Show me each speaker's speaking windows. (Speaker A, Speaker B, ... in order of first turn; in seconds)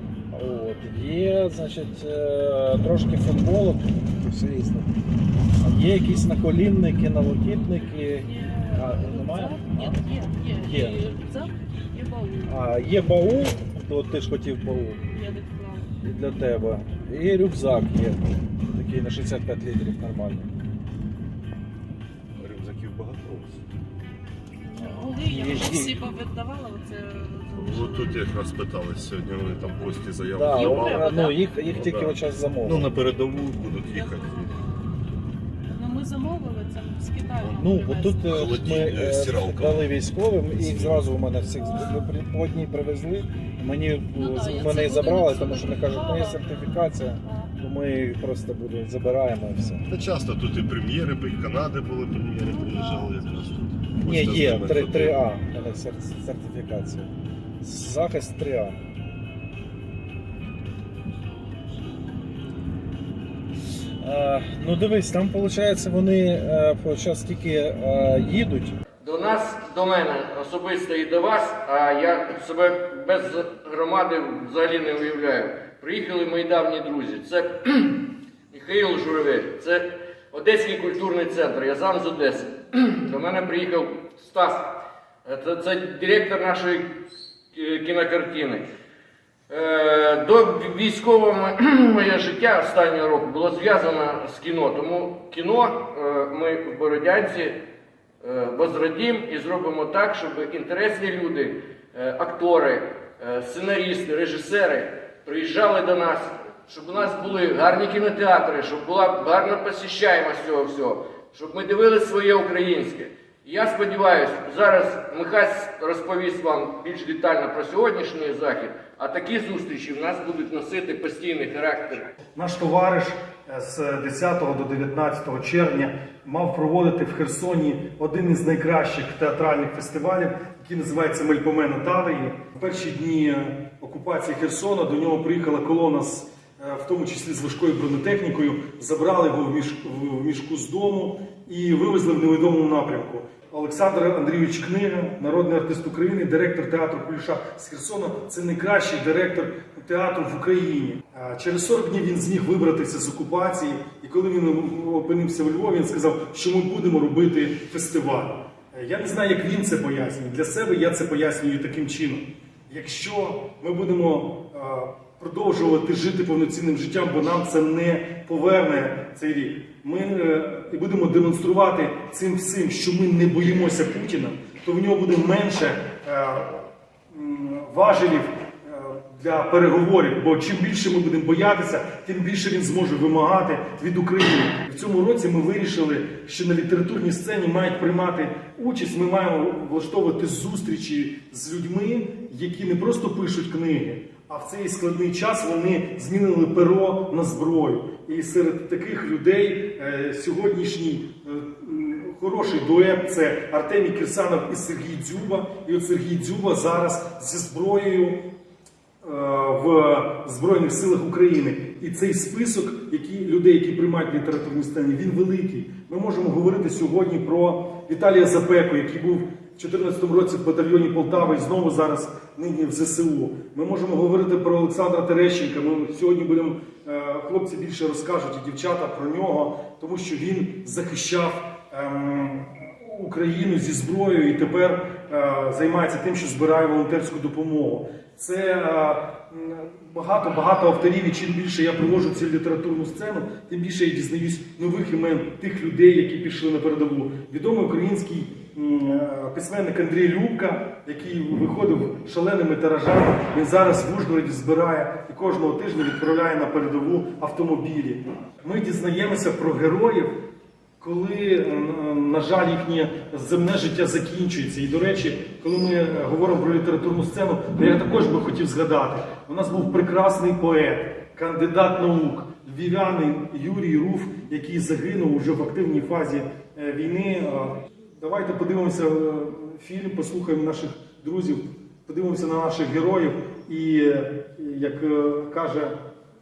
Speaker A: 0.3-4.9, 5.6-10.0, 10.5-11.0, 12.4-15.0, 16.0-20.5, 24.8-26.0, 30.3-32.9, 37.6-49.8, 54.0-58.8, 64.0-68.8
Speaker B: 8.1-12.7, 15.1-15.9, 24.7-28.4, 30.5-31.4, 33.9-34.5, 35.7-38.4, 44.1-46.5
Speaker C: 22.4-23.6, 27.5-34.5, 38.3-40.0, 40.5-41.2, 49.9-55.2
Speaker D: 69.0-78.0, 78.5-84.7, 85.2-86.9, 87.5-88.7, 89.5-97.5, 98.2-122.1
Speaker E: 122.3-208.2, 209.0-260.1, 260.8-285.7